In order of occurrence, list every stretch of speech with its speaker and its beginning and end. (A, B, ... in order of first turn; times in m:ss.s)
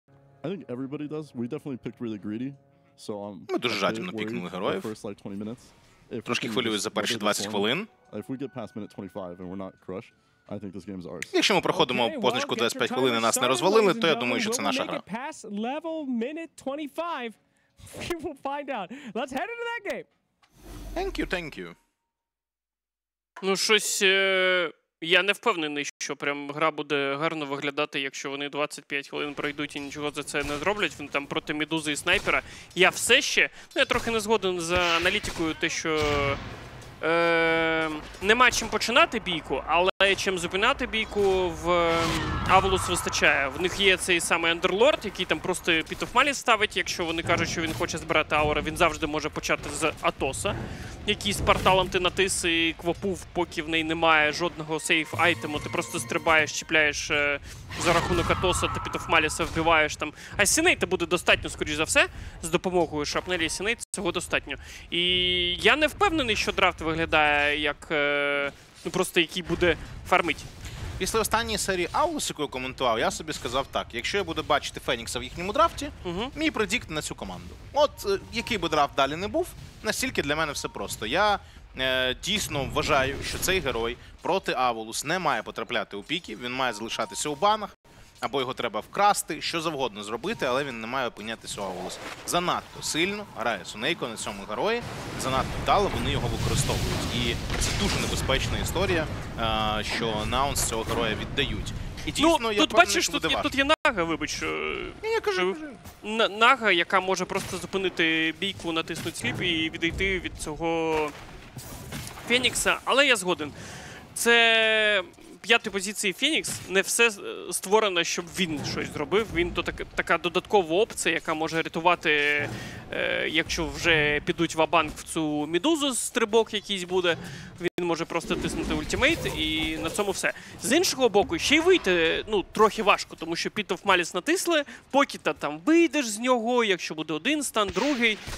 0:00.4-0:11.4 A
0:03.5-0:04.9 B
0:06.2-0:07.9 B
0:11.3-0:15.0 B
0:11.7-0:17.4 C
0:17.9-0:20.1 C
0:20.9-0:21.8 B
0:23.4-0:36.4 D
0:37.0-1:10.5 D
1:11.0-1:43.5 B
1:16.0-1:16.3 D
1:42.2-1:51.2 D
1:45.0-1:45.8 B
1:52.2-1:53.5 D
1:54.1-2:18.2 D